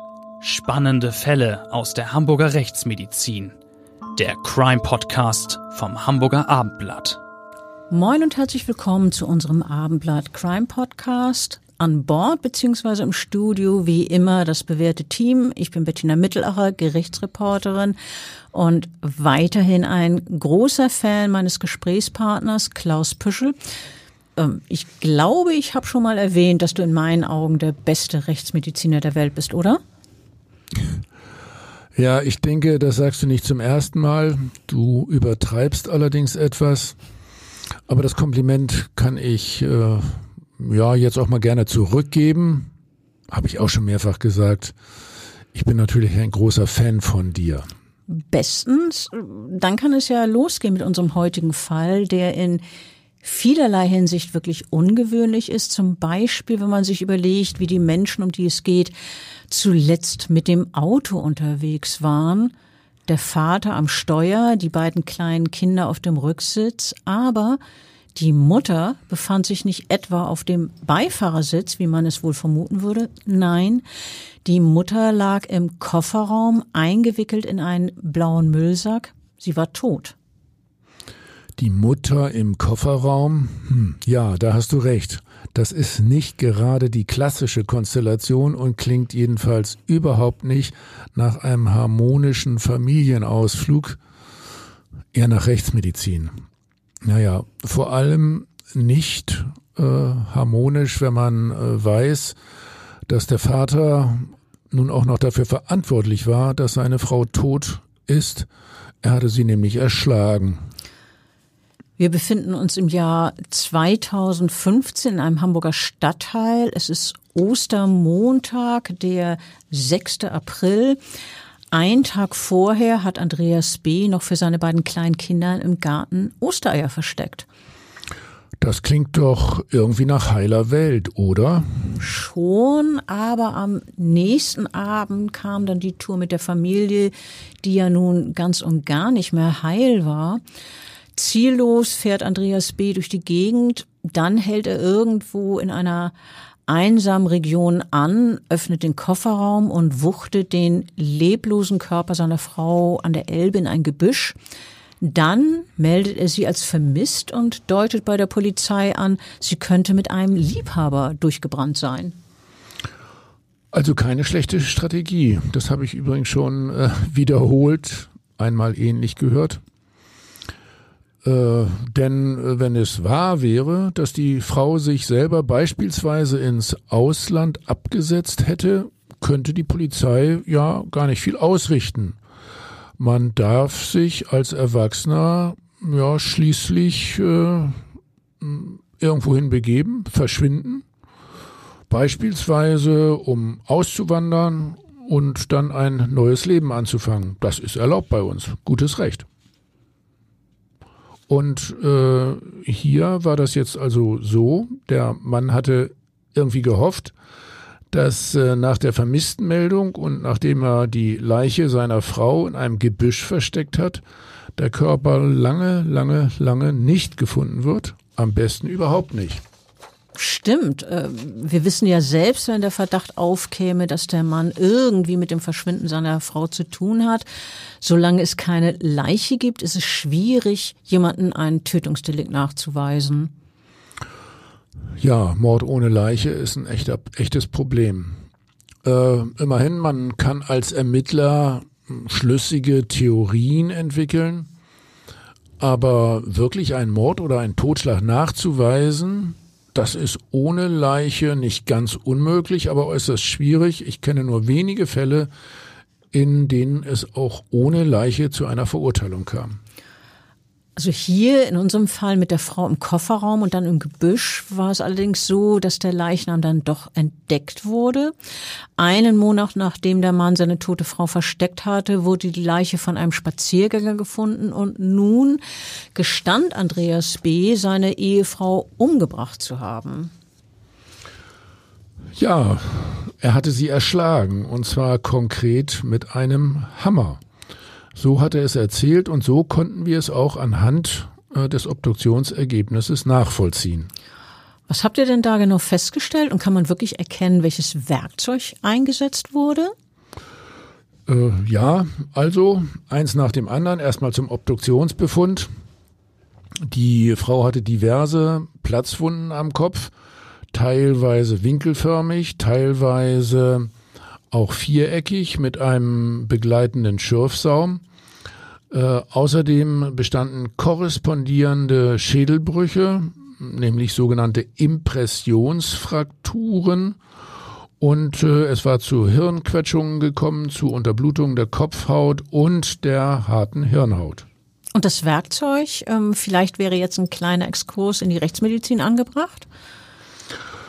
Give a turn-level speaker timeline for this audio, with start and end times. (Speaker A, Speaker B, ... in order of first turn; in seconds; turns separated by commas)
Speaker A: 0.4-3.5, Speaker A: 4.2-7.2, Speaker B: 7.9-18.0, Speaker B: 18.5-23.6, Speaker B: 24.4-29.8, Speaker C: 32.0-37.0, Speaker C: 37.9-42.7, Speaker C: 43.3-44.8, Speaker C: 45.5-47.7, Speaker B: 48.1-52.6, Speaker B: 53.2-58.9, Speaker B: 59.5-62.5, Speaker B: 63.1-67.6, Speaker B: 68.2-73.8, Speaker B: 74.5-80.2, Speaker C: 81.6-94.0, Speaker C: 95.1-96.4, Speaker C: 97.0-102.4, Speaker C: 103.1-108.5, Speaker C: 109.0-110.6, Speaker B: 112.0-121.0, Speaker B: 121.7-127.5, Speaker C: 128.6-131.7, Speaker B: 132.0-140.4, Speaker B: 141.1-146.1, Speaker B: 146.7-154.4, Speaker B: 155.0-162.2, Speaker C: 163.7-169.6, Speaker C: 171.2-182.2, Speaker C: 183.0-187.8, Speaker C: 188.4-190.8, Speaker C: 191.9-199.3, Speaker C: 201.3-207.1, Speaker C: 207.9-214.0, Speaker C: 214.6-219.4, Speaker B: 220.2-227.2, Speaker B: 227.8-233.3, Speaker C: 235.0-238.2, Speaker C: 238.8-244.5, Speaker C: 245.6-255.3, Speaker C: 256.1-259.6, Speaker B: 260.8-268.1, Speaker B: 268.8-275.4, Speaker B: 275.9-280.1, Speaker C: 282.2-287.2, Speaker C: 287.9-293.9, Speaker B: 294.7-299.7, Speaker C: 301.1-305.5, Speaker C: 306.7-309.9, Speaker C: 310.5-313.7, Speaker C: 314.3-317.8, Speaker C: 318.7-327.0, Speaker C: 327.8-334.3, Speaker B: 334.8-339.5